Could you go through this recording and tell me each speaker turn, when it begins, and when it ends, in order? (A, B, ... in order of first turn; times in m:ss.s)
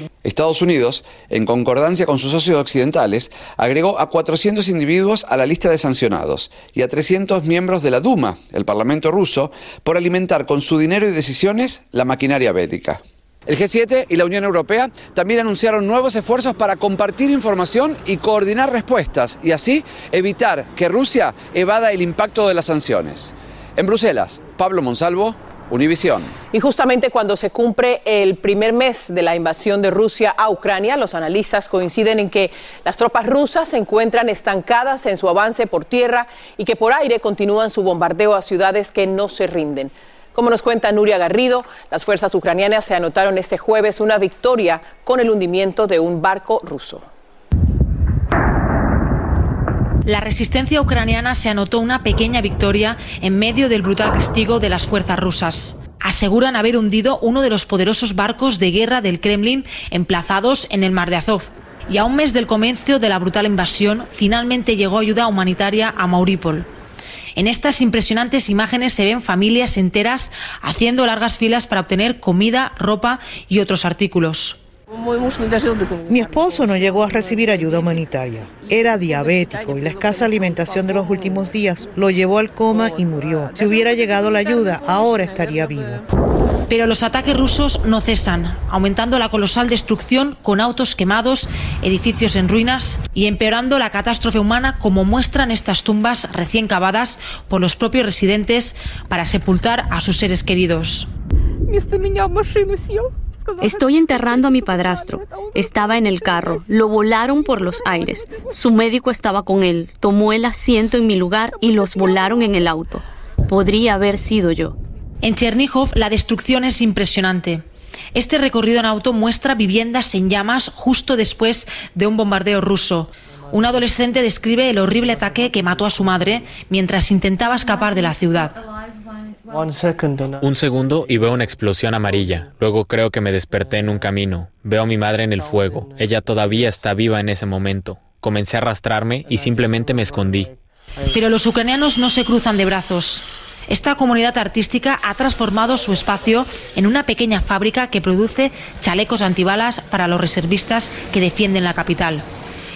0:00.2-0:26.3 A
0:26.5-0:47.0 B
0:50.1-1:06.7 C
1:07.4-1:14.6 C
1:16.1-1:26.0 D
1:26.7-1:41.1 C
1:43.6-1:54.7 E
1:55.2-1:57.6 C
1:58.2-2:08.6 C
2:10.4-2:20.5 F
2:21.1-2:32.2 C